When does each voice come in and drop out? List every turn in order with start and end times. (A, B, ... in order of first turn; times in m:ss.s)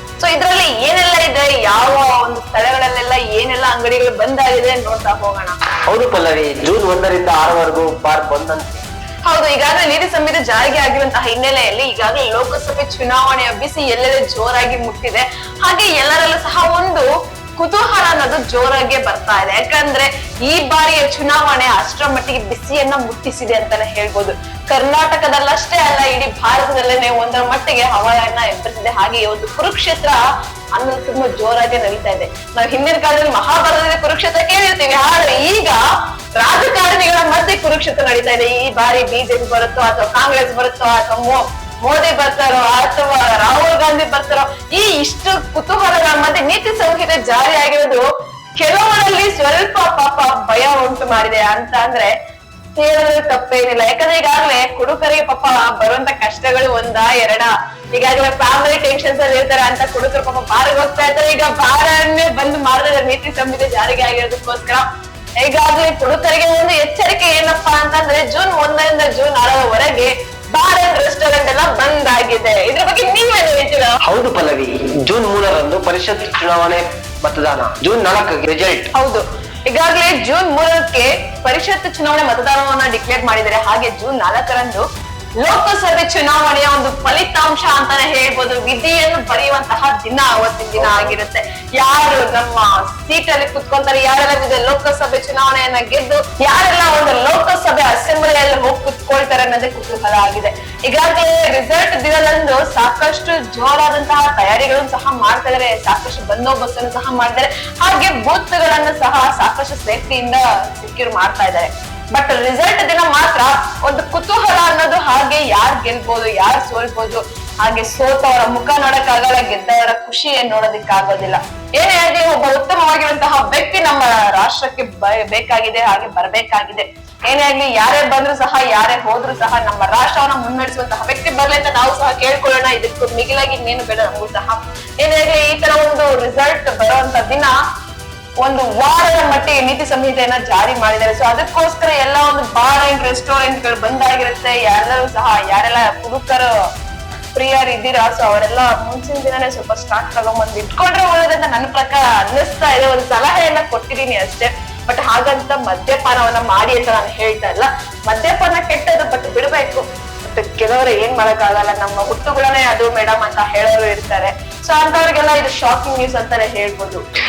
0:00.2-0:05.6 A
0:05.9-0:08.8 B
0:09.2-0:30.2 A
0:30.8-0:35.8 A
0:36.4-0:48.0 A
0:48.6-0:52.1 A
0:52.8-1:04.8 A
1:05.4-1:14.0 A
1:14.0-1:18.9 B
1:18.9-1:24.8 A
1:25.4-2:17.5 A
1:30.8-1:31.2 B
2:18.4-2:26.5 A
2:27.3-2:47.0 A